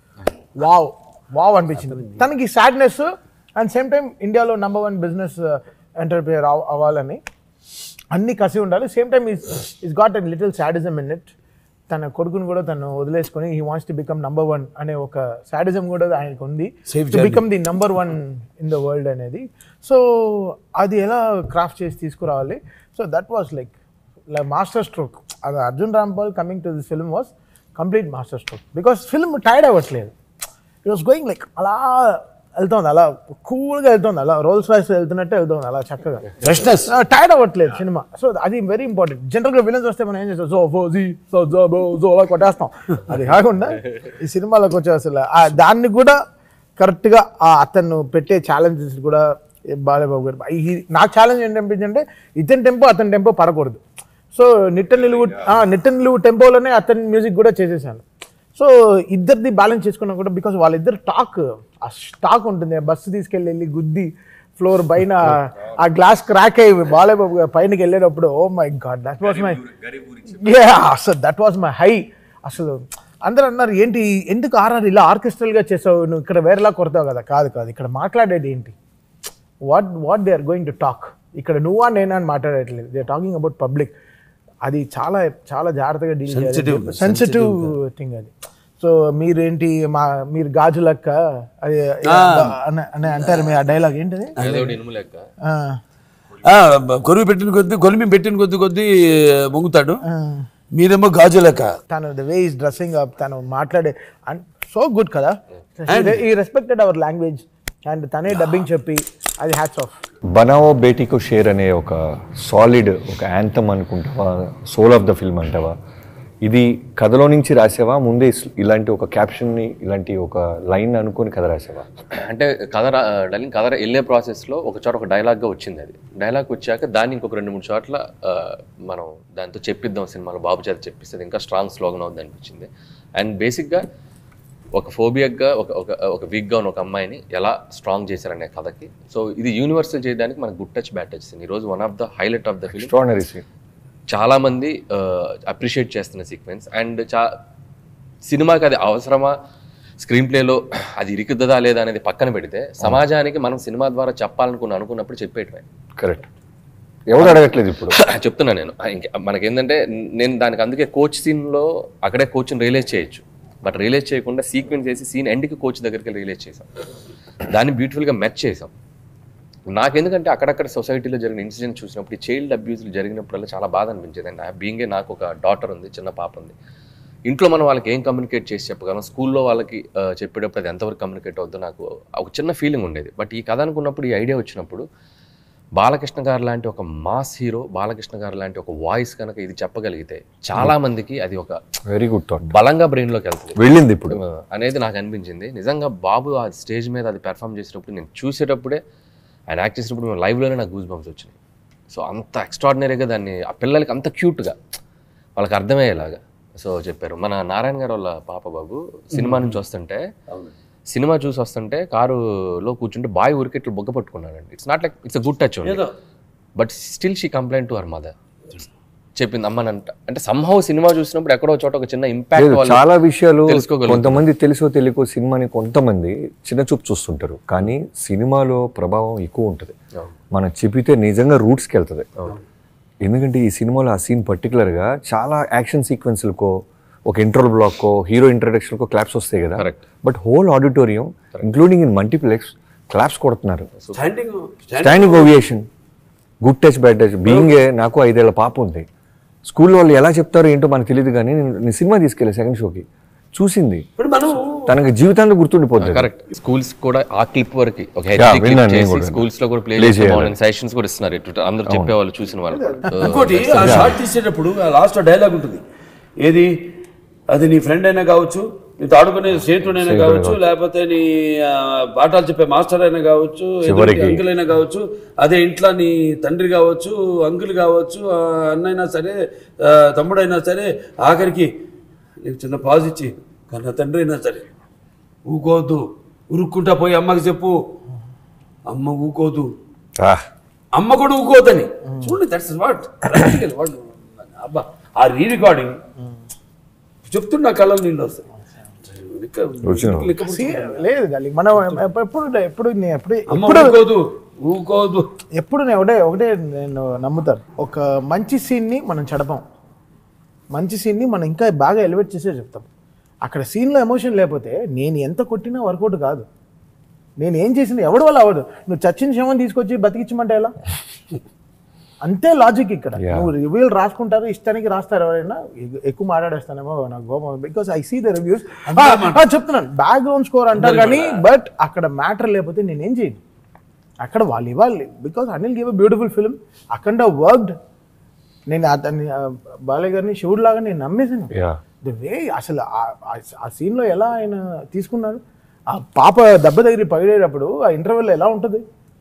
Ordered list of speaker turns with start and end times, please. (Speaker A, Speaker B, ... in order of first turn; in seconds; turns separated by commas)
Speaker A: 0.6-7.2, Speaker B: 1.9-2.2, Speaker A: 8.1-11.3, Speaker A: 11.9-23.7, Speaker B: 16.9-17.4, Speaker A: 24.3-30.1, Speaker A: 30.8-46.2, Speaker B: 36.4-36.9, Speaker A: 46.8-53.8, Speaker A: 54.3-69.6, Speaker C: 54.9-55.6, Speaker C: 69.3-70.5, Speaker A: 70.3-78.7, Speaker A: 79.6-83.9, Speaker A: 84.6-94.8, Speaker B: 86.3-87.8, Speaker B: 92.0-92.5, Speaker B: 93.2-93.5, Speaker D: 94.4-95.3, Speaker A: 95.4-95.8, Speaker B: 96.4-100.0, Speaker A: 100.1-100.5, Speaker B: 100.7-101.8, Speaker A: 101.9-110.0, Speaker B: 105.9-106.2, Speaker C: 110.3-115.8, Speaker C: 116.4-121.9, Speaker D: 122.1-133.8, Speaker D: 134.7-142.9, Speaker C: 142.7-143.4, Speaker D: 144.1-147.3, Speaker D: 148.2-149.3, Speaker D: 150.0-155.6, Speaker C: 156.0-156.3, Speaker C: 157.1-158.0, Speaker D: 157.2-166.7, Speaker D: 167.5-168.7, Speaker D: 169.7-176.5, Speaker D: 177.3-184.8, Speaker D: 185.8-191.6, Speaker C: 191.9-192.6, Speaker D: 192.5-193.6, Speaker C: 193.6-194.2, Speaker D: 194.1-198.8, Speaker D: 199.5-201.3, Speaker D: 201.9-204.6, Speaker D: 205.4-210.1, Speaker B: 209.1-209.6, Speaker D: 210.9-215.8, Speaker B: 215.6-215.9, Speaker D: 216.6-218.1, Speaker D: 219.2-222.8, Speaker C: 222.3-229.8, Speaker D: 223.5-224.2, Speaker C: 230.3-232.1, Speaker C: 233.0-243.7, Speaker B: 243.9-245.3, Speaker C: 244.8-245.7, Speaker C: 246.4-248.9, Speaker C: 249.5-253.8, Speaker B: 254.0-254.8, Speaker C: 254.7-256.1, Speaker D: 255.8-264.0, Speaker C: 258.2-259.2, Speaker C: 259.8-260.4, Speaker C: 261.6-261.9, Speaker A: 262.5-263.1, Speaker B: 263.0-265.6, Speaker C: 263.6-263.9, Speaker B: 266.2-266.7, Speaker B: 267.3-281.5, Speaker C: 269.8-270.4, Speaker C: 273.6-274.2, Speaker B: 282.2-284.5, Speaker B: 285.3-287.6, Speaker B: 288.7-289.5, Speaker C: 290.0-290.2, Speaker B: 290.7-295.8, Speaker B: 297.0-298.2, Speaker B: 298.8-300.8, Speaker C: 299.7-300.1, Speaker A: 300.2-303.8, Speaker B: 303.3-305.1, Speaker A: 305.4-309.4, Speaker A: 310.5-312.7, Speaker A: 313.2-316.2, Speaker A: 317.2-320.6, Speaker A: 322.0-333.2, Speaker C: 323.0-323.3, Speaker B: 328.7-329.3, Speaker B: 330.5-331.1, Speaker A: 334.0-337.6, Speaker A: 338.5-348.6, Speaker C: 341.3-341.6